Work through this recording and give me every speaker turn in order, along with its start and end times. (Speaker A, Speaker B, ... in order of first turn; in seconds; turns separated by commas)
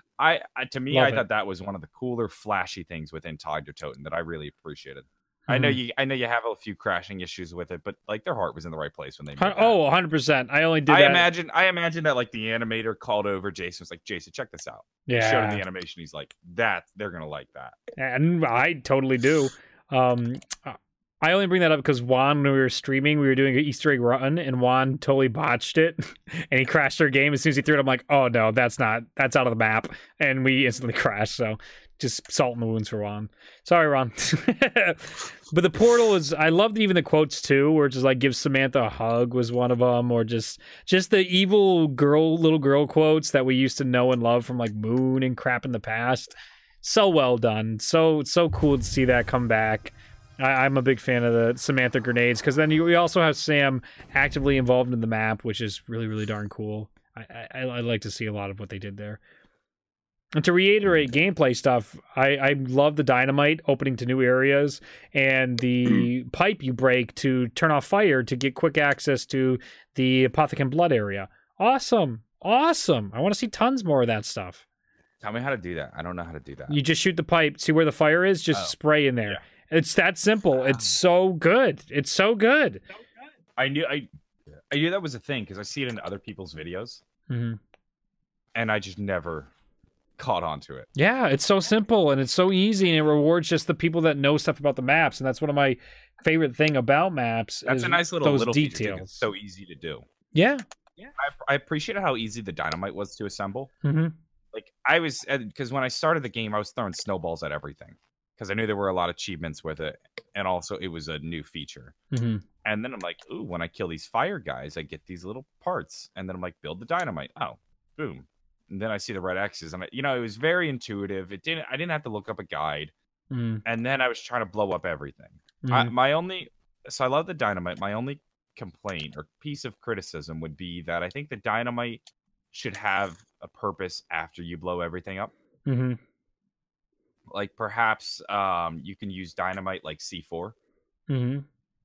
Speaker A: 0.2-9.8, Speaker B: 0.9-1.2, Speaker B: 5.5-5.8, Speaker B: 9.4-11.3, Speaker A: 10.9-17.8, Speaker B: 15.1-15.6, Speaker B: 18.0-59.2, Speaker B: 60.4-74.6, Speaker A: 75.2-76.8, Speaker B: 76.7-82.8, Speaker A: 78.5-79.4, Speaker A: 80.7-80.9, Speaker A: 83.6-84.1, Speaker A: 84.7-87.0, Speaker B: 87.3-87.6, Speaker A: 88.5-89.5, Speaker A: 90.2-90.9, Speaker B: 91.0-99.3, Speaker A: 97.7-100.1, Speaker B: 100.3-100.6, Speaker A: 101.0-103.7, Speaker B: 103.8-104.2, Speaker A: 104.5-112.0, Speaker B: 112.1-112.4, Speaker A: 112.7-122.9, Speaker B: 123.3-123.6, Speaker A: 123.7-132.0, Speaker B: 125.6-125.9, Speaker A: 132.5-135.3, Speaker B: 135.7-136.0, Speaker A: 137.3-140.6, Speaker B: 141.1-141.4